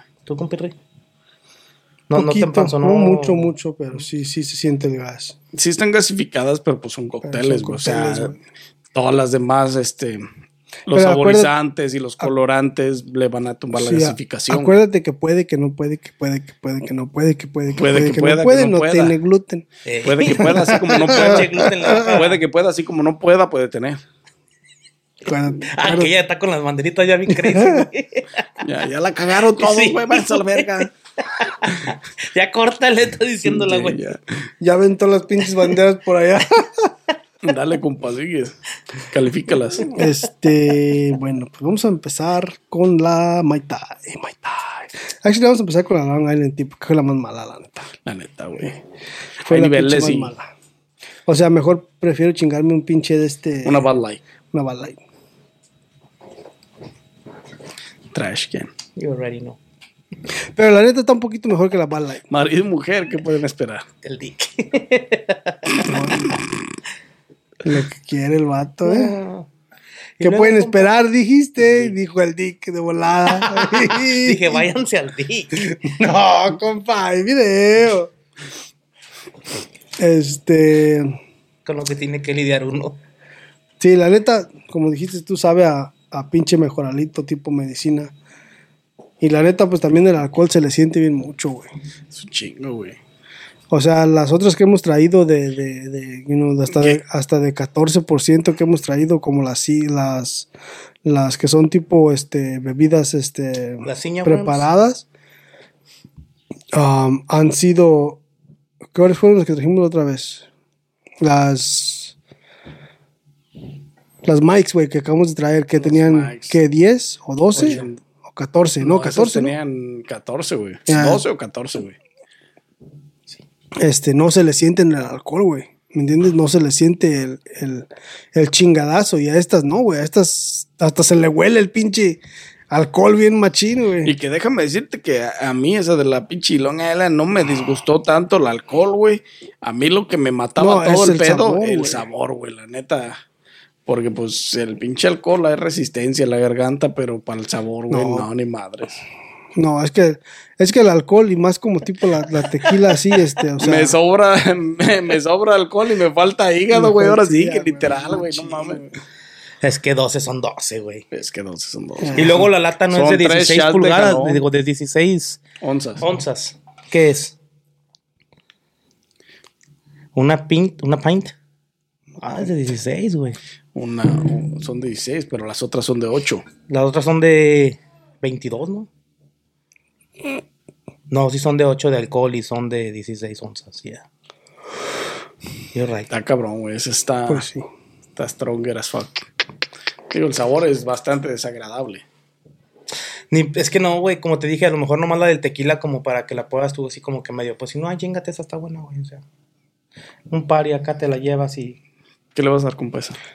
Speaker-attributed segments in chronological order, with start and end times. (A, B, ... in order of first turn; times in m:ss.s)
0:00.2-0:00.8 A
0:02.1-0:03.5 A
0:02.1-0:05.4 B
0:05.5-0:08.3 C
0:07.2-0:08.4 B
0:08.9-0:10.2 C
0:10.9-0:14.7 C
0:10.9-0:11.5 B
0:13.7-0:19.6 B
0:17.7-0:19.2 C
0:19.8-0:22.4 A
0:20.0-0:24.0 C
0:20.3-0:22.1 B
0:25.2-0:26.1 B
0:25.7-0:28.4 A
0:27.3-0:27.9 B
0:28.6-0:30.9 C
0:29.5-0:34.0 A
0:33.4-0:34.2 C
0:34.6-0:36.9 B
0:37.4-0:39.9 C
0:39.9-0:47.9 B
0:48.0-0:48.8 C
0:49.4-0:50.3 C
0:49.5-0:50.5 B
0:51.3-0:53.8 B
0:53.6-0:54.2 C
0:54.5-0:55.0 B
0:58.1-0:58.7 C
0:59.0-0:59.6 A
1:00.5-1:02.2 B
1:02.3-1:03.8 C
1:04.0-1:05.9 A
1:05.8-1:06.3 B
1:07.6-1:09.1 B
1:08.8-1:09.5 A
1:10.2-1:10.9 A
1:10.2-1:14.6 B
1:11.6-1:11.9 C
1:13.3-1:16.5 A
1:16.3-1:18.1 B
1:20.0-1:21.2 B
1:21.6-1:23.0 A
1:23.8-1:28.1 B
1:29.2-1:31.7 B
1:32.1-1:33.0 C
1:33.7-1:40.5 B
1:36.7-1:37.0 C
1:41.0-1:45.0 B
1:43.8-1:44.6 A
1:46.7-1:48.2 B
1:48.9-1:50.4 B
1:51.2-1:52.1 B
1:54.2-1:59.6 B
1:55.8-1:56.6 C
1:57.5-1:57.9 C
1:58.8-2:02.0 C
2:00.9-2:01.2 B
2:03.8-2:12.2 B
2:12.7-2:14.1 B
2:14.0-2:23.2 C
2:20.6-2:22.0 B
2:23.8-2:29.0 C
2:27.9-2:28.3 B
2:29.6-2:34.0 B
2:33.6-2:38.9 C
2:36.7-2:38.8 B
2:39.6-2:41.0 A
2:41.1-2:44.4 C
2:42.0-2:42.4 B
2:42.1-2:45.4 A
2:45.6-2:46.0 C
2:46.0-2:47.4 A
2:50.1-2:51.3 A
2:52.2-2:53.4 A
2:53.7-2:56.4 C
2:56.7-2:58.9 A
3:01.1-3:04.0 A
3:05.7-3:06.1 A
3:06.1-3:07.4 C
3:07.3-3:07.7 B
3:08.2-3:09.2 C
3:10.1-3:12.0 C
3:13.3-3:19.2 A
3:20.3-3:21.8 A
3:22.3-3:23.2 C